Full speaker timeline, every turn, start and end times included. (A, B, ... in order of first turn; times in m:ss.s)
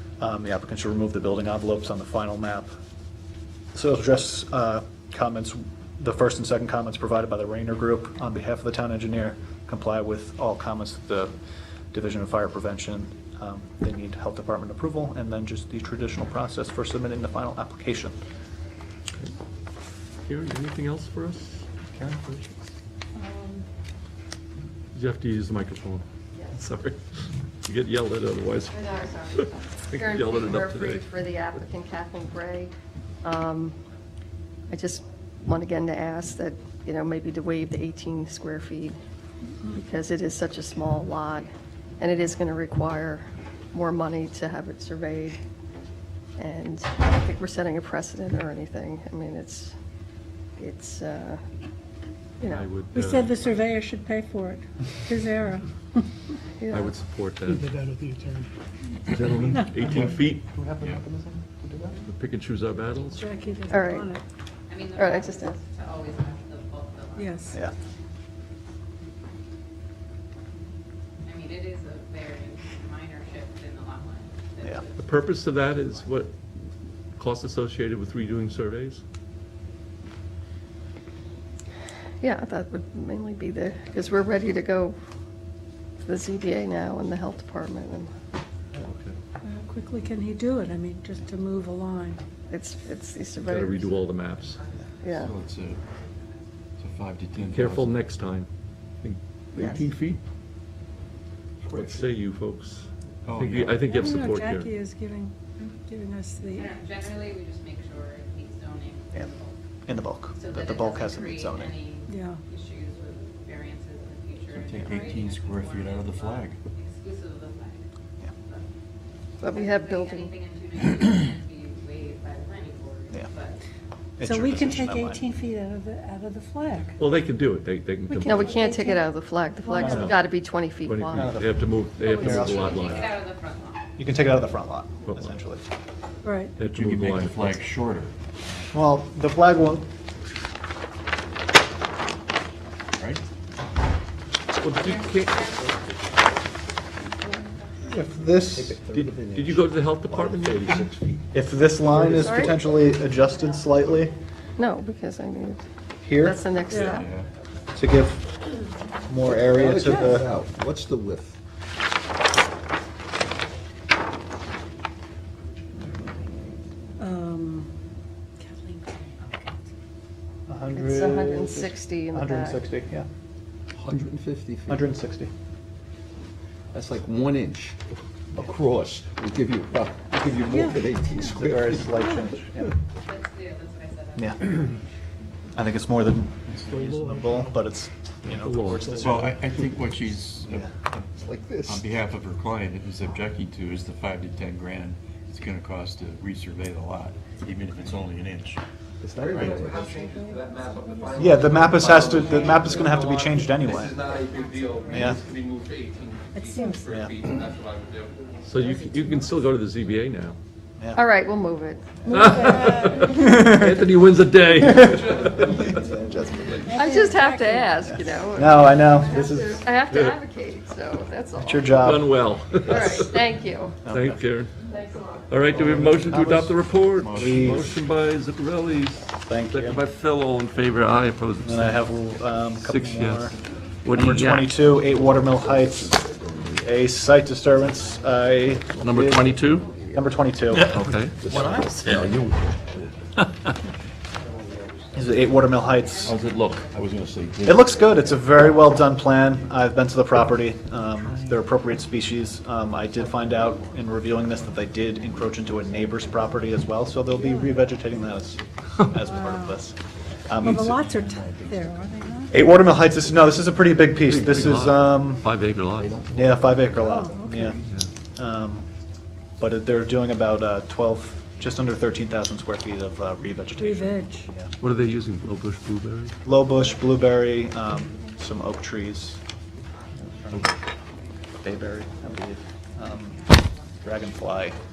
0:00.2-0:02.7 A
0:03.7-0:11.4 A
0:11.9-0:18.2 A
0:20.3-0:21.7 B
0:21.9-0:22.4 A
0:24.9-0:27.0 B
0:26.4-0:26.6 C
0:27.6-0:31.1 B
0:28.7-0:33.8 C
0:34.7-0:39.0 C
0:39.7-0:45.4 C
0:46.4-0:49.7 C
0:50.6-0:51.4 C
0:52.4-0:52.7 C
0:52.4-0:53.3 B
0:52.9-0:56.0 D
0:56.6-0:56.9 C
0:56.7-0:57.7 B
0:57.5-0:58.5 E
0:59.1-1:00.4 B
0:59.5-0:59.8 D
1:00.5-1:02.0 A
1:00.8-1:01.0 F
1:02.1-1:03.3 B
1:03.1-1:04.2 D
1:03.7-1:04.1 C
1:04.7-1:07.9 G
1:05.0-1:05.6 C
1:07.2-1:07.6 D
1:11.2-1:15.2 G
1:15.0-1:16.3 B
1:17.2-1:19.0 B
1:22.2-1:25.0 C
1:26.0-1:28.1 C
1:28.8-1:29.2 B
1:29.4-1:32.2 D
1:32.5-1:34.0 C
1:33.4-1:34.6 B
1:35.0-1:35.3 C
1:35.2-1:35.8 F
1:36.8-1:38.0 F
1:37.4-1:38.5 B
1:39.0-1:40.2 B
1:39.6-1:39.9 C
1:41.7-1:44.7 B
1:43.2-1:44.1 F
1:43.8-1:46.8 D
1:46.5-1:49.6 G
1:49.9-1:51.8 A
1:50.3-1:57.9 G
1:52.1-1:52.4 D
1:54.5-1:56.6 F
1:59.4-2:03.6 G
1:59.4-2:00.4 C
2:04.2-2:05.2 A
2:04.2-2:07.0 D
2:07.0-2:08.6 B
2:08.1-2:10.1 D
2:08.2-2:11.4 C
2:09.8-2:10.2 A
2:10.8-2:13.1 B
2:11.1-2:13.2 A
2:12.1-2:12.5 D
2:12.3-2:13.9 G
2:14.0-2:15.6 A
2:16.2-2:16.6 D
2:16.6-2:17.6 B
2:16.6-2:18.1 F
2:18.7-2:19.9 A
2:23.0-2:23.2 F
2:24.6-2:25.5 B
2:24.8-2:25.7 G
2:27.2-2:27.9 G
2:27.9-2:28.8 A
2:28.5-2:31.2 H
2:28.9-2:31.0 B
2:31.3-2:34.2 A
2:31.9-2:32.4 H
2:32.1-2:32.6 C
2:34.6-2:35.6 C
2:36.0-2:36.4 A
2:36.2-2:37.1 C
2:36.7-2:37.0 D
2:36.7-2:37.3 F
2:37.8-2:38.3 A
2:39.1-2:40.3 A
2:39.3-2:41.4 H
2:47.0-2:47.7 D
2:48.4-2:49.5 D
2:50.5-2:53.1 A
2:50.7-2:52.6 C
2:53.8-2:54.9 H
2:54.7-2:55.3 A
2:56.7-2:57.8 H
2:58.4-3:02.0 H
3:00.5-3:01.3 D
3:01.1-3:02.7 A
3:02.0-3:02.3 D
3:03.0-3:04.8 G
3:04.2-3:04.4 A
3:05.6-3:09.3 A
3:06.6-3:07.6 E
3:08.4-3:08.9 B
3:08.8-3:09.4 E
3:08.9-3:11.1 F
3:11.2-3:11.9 H
3:11.6-3:18.6 F
3:19.0-3:19.9 H
3:19.2-3:28.5 I
3:19.5-3:23.4 D
3:21.2-3:24.0 A
3:23.9-3:25.3 G
3:24.9-3:25.2 A
3:26.3-3:26.9 D
3:26.9-3:27.2 A
3:28.4-3:30.4 B
3:28.6-3:29.3 D
3:30.8-3:31.1 A
3:30.9-3:33.4 C
3:32.0-3:33.5 D
3:32.1-3:35.6 B
3:33.0-3:33.8 A
3:34.6-3:36.8 A
3:34.9-3:35.7 I
3:36.7-3:38.1 D
3:36.7-3:42.1 C
3:38.1-3:39.6 A
3:39.9-3:40.2 B
3:41.4-3:42.1 A
3:41.7-3:43.3 B
3:42.6-3:43.8 C
3:42.7-3:43.0 A
3:43.8-3:44.2 A
3:43.9-3:44.5 B
3:45.3-3:51.8 B
3:45.5-3:46.6 A
3:47.0-3:47.8 F
3:47.1-3:47.8 A
3:49.3-3:49.8 A
3:51.4-4:02.0 A
3:52.6-3:54.5 B
3:56.0-3:56.5 H
3:58.8-3:59.7 B
3:59.5-4:00.0 H
4:00.5-4:02.1 B
4:00.7-4:02.6 H
4:04.3-4:04.5 G
4:04.9-4:06.2 A
4:05.2-4:09.2 G
4:06.1-4:07.7 F
4:06.2-4:06.7 B
4:07.4-4:20.9 A
4:16.0-4:16.4 D
4:17.2-4:17.6 D
4:18.1-4:18.5 H
4:19.0-4:19.6 D
4:20.4-4:22.4 D
4:20.9-4:21.7 H
4:22.3-4:25.3 A
4:23.0-4:23.4 H
4:24.1-4:24.7 H
4:24.2-4:26.0 B
4:25.7-4:27.7 H
4:26.1-4:27.6 A
4:26.8-4:27.6 D
4:28.2-4:28.7 A
4:29.4-4:34.5 A
4:33.6-4:34.3 D
4:34.6-4:36.2 B
4:36.2-4:39.2 A
4:40.2-4:40.6 A
4:41.4-4:44.6 A